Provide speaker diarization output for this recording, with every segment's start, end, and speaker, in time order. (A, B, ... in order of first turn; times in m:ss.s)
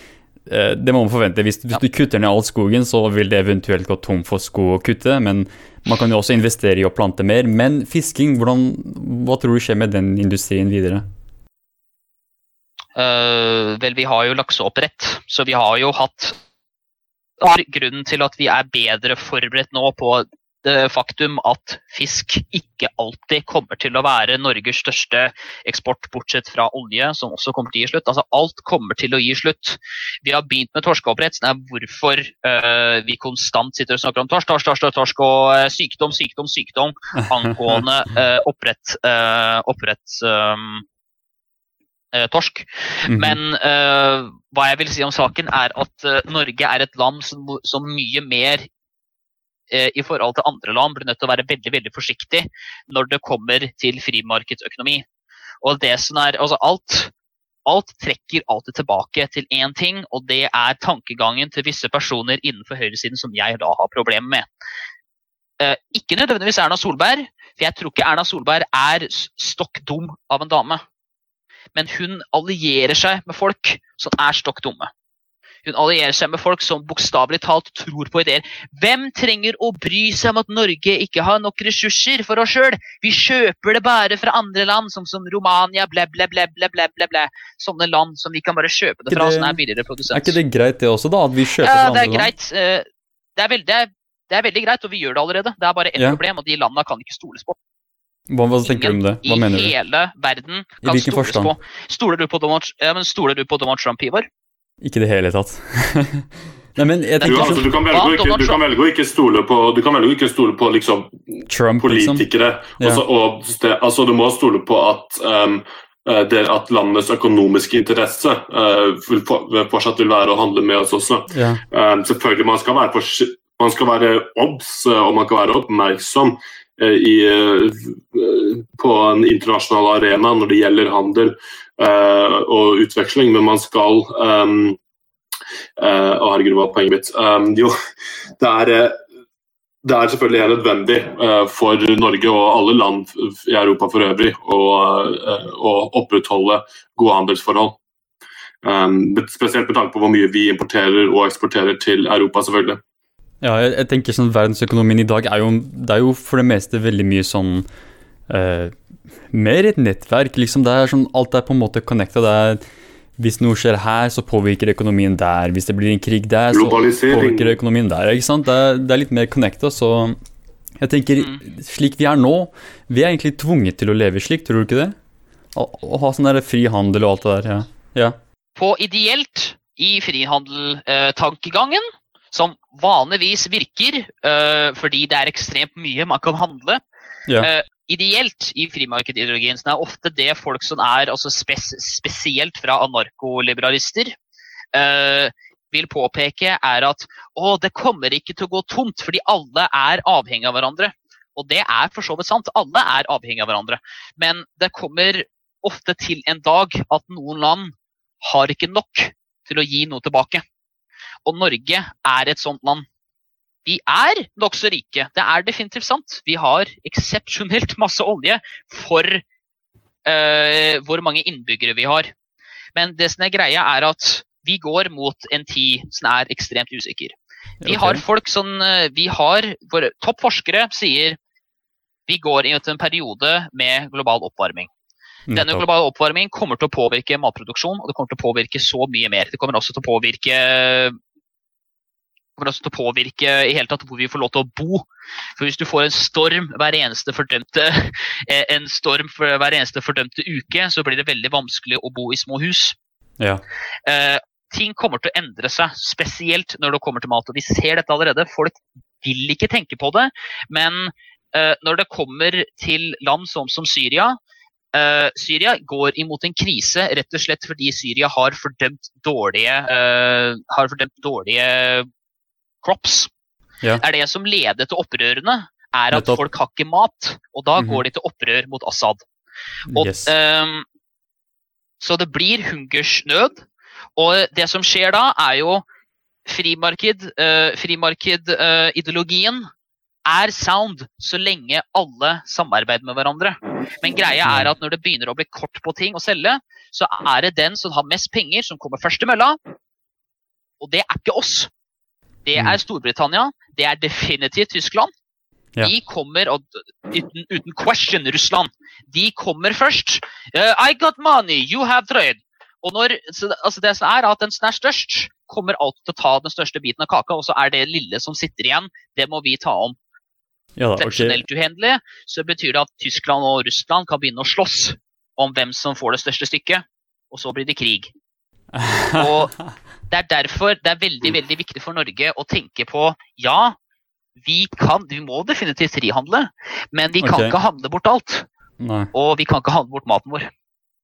0:00.5-0:11.0 A
0:13.0-0:16.4 B
0:17.4-0:40.8 B
0:37.4-0:37.8 A
0:42.1-0:48.7 B
0:43.1-0:43.4 A
0:49.7-0:55.0 B
0:55.6-0:57.1 B
0:57.7-1:04.5 B
1:05.6-1:10.8 B
1:11.8-1:14.9 B
1:15.6-1:30.4 B
1:29.1-1:29.6 A
1:30.1-1:32.3 A
1:31.6-1:32.8 B
1:33.4-1:37.6 B
1:36.0-1:36.2 A
1:38.3-1:39.7 A
1:38.6-1:44.3 B
1:40.8-1:41.5 A
1:44.8-1:47.7 A
1:47.2-1:51.1 C
1:47.9-1:48.6 B
1:51.5-1:52.2 A
1:51.8-2:14.8 C
2:01.3-2:01.6 A
2:15.8-2:17.8 C
2:18.4-2:19.0 C
2:19.8-2:27.8 C
2:28.6-2:32.8 C
2:33.4-2:37.7 A
2:38.3-2:38.8 A
2:39.3-2:42.6 A
2:43.2-2:50.2 A
2:46.5-2:47.6 C
2:50.8-2:55.0 A
2:55.6-2:58.2 A
2:58.6-3:06.8 B
3:07.4-3:14.2 B
3:14.7-3:30.4 B
3:31.2-3:32.9 B
3:33.7-3:39.2 B
3:40.0-3:42.1 B
3:42.8-3:47.1 B
3:47.6-3:48.0 A
3:47.7-3:51.2 B
3:52.1-3:54.7 B
3:55.3-3:55.6 A
3:55.3-4:01.0 B
4:02.4-4:04.9 B
4:05.4-4:12.8 B
4:13.9-4:24.2 B
4:24.7-4:31.9 B
4:32.6-4:33.1 B
4:33.8-4:39.0 B
4:35.9-4:36.2 A
4:39.7-4:40.1 A
4:39.8-4:40.6 B
4:41.8-4:43.5 B
4:44.0-4:45.6 B
4:46.3-4:49.5 B
4:50.1-4:59.4 B
5:00.6-5:01.5 B
5:02.2-5:04.9 B
5:05.6-5:19.8 B
5:20.6-5:21.2 A
5:20.8-5:27.9 B
5:28.5-5:29.2 A
5:28.9-5:29.3 B
5:29.9-5:33.6 B
5:34.2-5:38.3 B
5:37.0-5:37.4 A
5:38.6-5:38.9 A
5:38.9-5:40.3 B